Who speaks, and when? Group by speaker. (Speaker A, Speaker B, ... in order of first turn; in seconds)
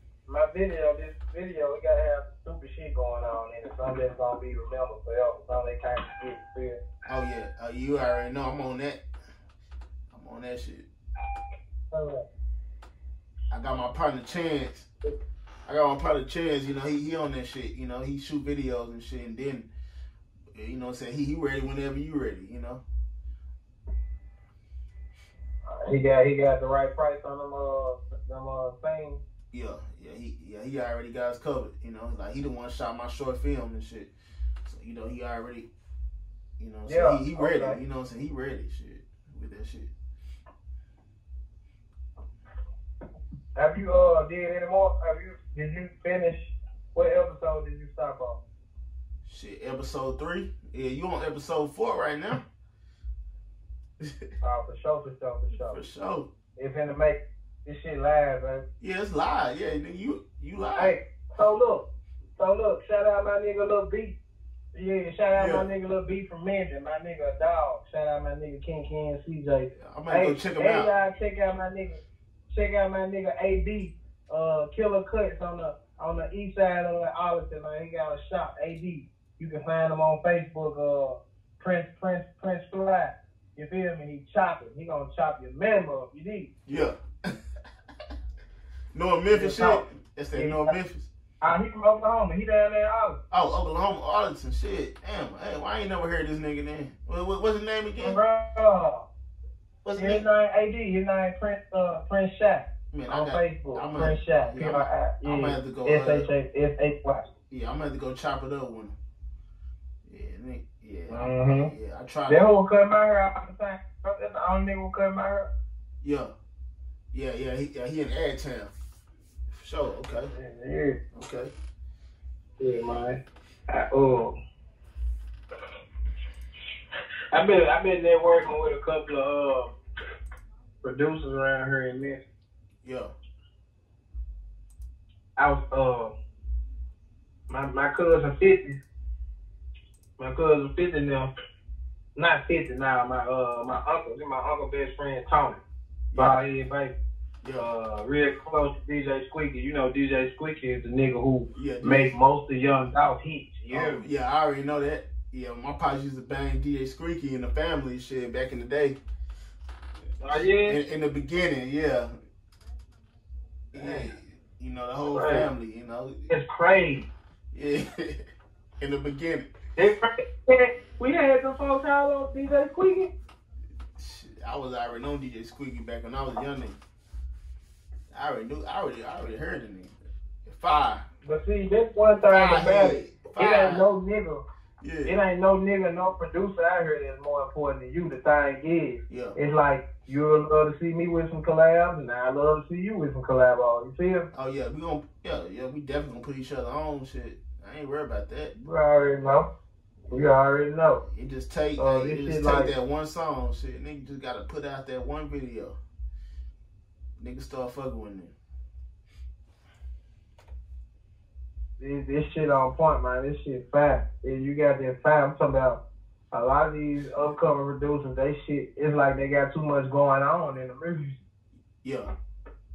Speaker A: 0.3-6.8, 11.9-12.2, 25.7-29.2, 36.9-37.8, 43.6-48.4, 54.4-55.8, 56.6-58.6, 60.8-61.9, 62.4-64.2, 64.7-86.5, 89.3-89.8, 90.3-90.7, 91.4-93.2, 98.0-99.1, 100.0-107.3, 111.1-111.7, 112.3-115.5, 120.3-121.0, 122.6-124.3, 127.3-129.7, 130.8-132.2, 135.4-136.1, 137.5-138.8, 140.2-141.3, 142.2-145.6, 146.2-146.9, 147.6-154.0, 160.2-160.8, 163.8-164.1, 165.1-165.5, 166.3-167.1, 169.8-173.1, 181.2-184.4, 185.1-194.3, 198.6-199.5, 200.1-201.0, 201.8-202.7, 211.8-215.8, 216.3-221.2
Speaker B: 7.1-9.0, 10.1-10.9, 13.5-14.9, 15.7-19.7, 20.6-22.8, 29.5-34.1, 34.6-35.7, 36.6-39.9, 49.3-52.4, 54.0-54.3, 55.7-56.3, 58.8-61.0, 65.3-65.7, 69.8-70.9, 86.7-87.4, 88.9-91.1, 93.3-98.2, 99.8-100.2, 102.9-106.2, 107.5-109.0, 110.1-112.5, 116.0-116.3, 117.1-118.7, 119.5-120.3, 121.2-121.5, 132.8-133.1, 151.5-152.1, 153.7-159.0, 160.4-162.1, 163.7-166.3, 167.5-168.2, 168.8-169.5, 174.0-176.8, 178.1-179.9, 180.5-181.1, 182.2-183.9, 184.8-185.2, 189.1-189.4, 194.3-198.6, 200.0-200.4, 201.0-205.8, 207.2-208.3, 221.8-222.1